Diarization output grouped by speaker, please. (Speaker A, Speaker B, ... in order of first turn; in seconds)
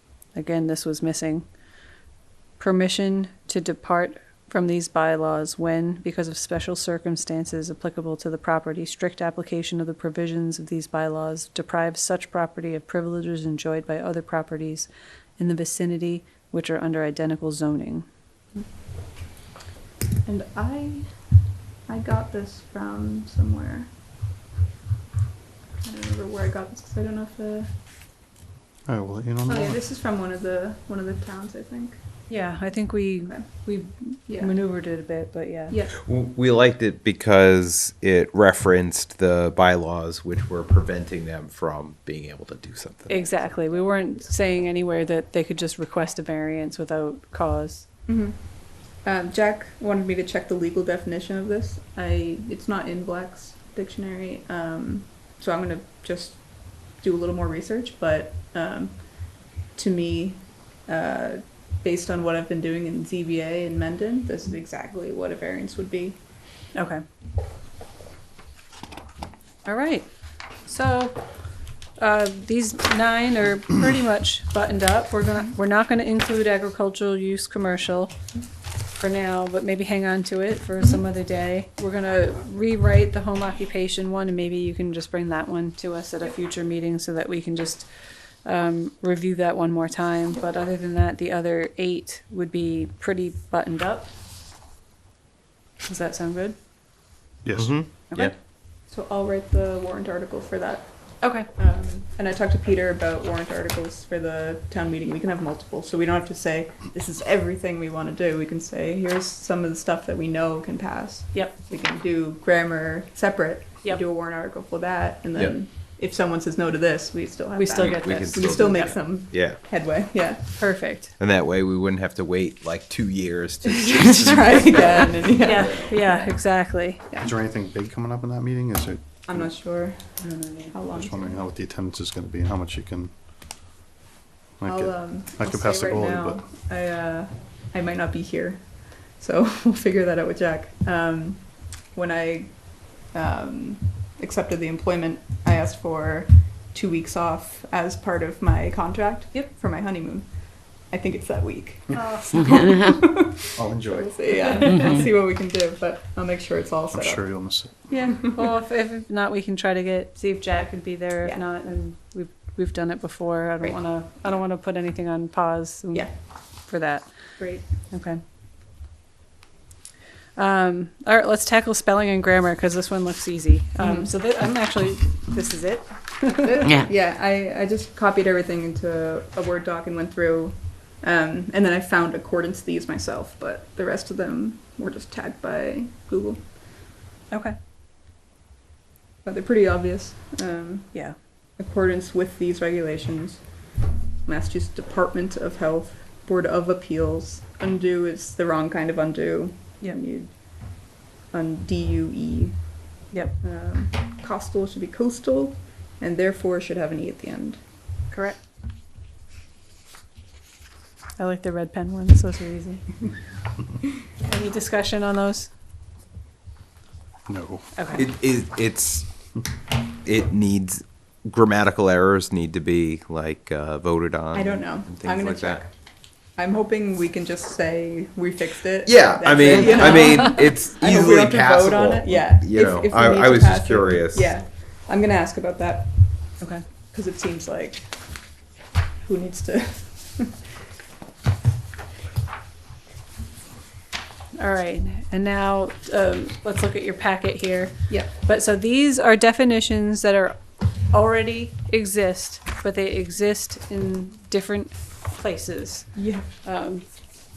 Speaker A: 0.3-1.5, 2.6-18.1, 32.3-35.8, 43.1-47.9, 66.7-67.0, 69.7-78.2, 79.0-87.9, 88.4-94.1, 95.8-96.6, 101.2-101.5, 111.3-111.6, 117.6-119.0, 120.6-121.1, 125.4-127.0, 130.2-130.7, 151.9-152.6, 157.9-168.2, 170.4-176.7, 187.3-187.6, 208.1-208.4, 211.2-212.9, 214.2-215.5, 217.8-218.1, 244.3-255.9, 256.4-256.9
Speaker B: 20.2-23.9, 25.8-27.8, 29.5-32.0, 34.3-34.5, 35.7-36.0, 48.1-66.2, 98.8-120.8, 124.2-127.3, 129.3-131.4, 134.7-157.5, 167.4-167.7, 173.8-174.1, 176.4-186.5, 189.2-191.1, 191.6-193.7, 194.2-207.7, 224.3-238.5, 239.0-240.5, 255.9-256.3
Speaker C: 28.9-29.8, 97.4-97.8, 127.2-129.5, 130.9-133.2, 134.6-136.4, 153.5-155.0, 156.9-157.9, 217.3-217.7
Speaker D: 35.9-43.6, 97.6-98.3, 117.8-119.6, 121.2-125.2, 217.9-219.1, 220.0-225.6, 228.8-234.4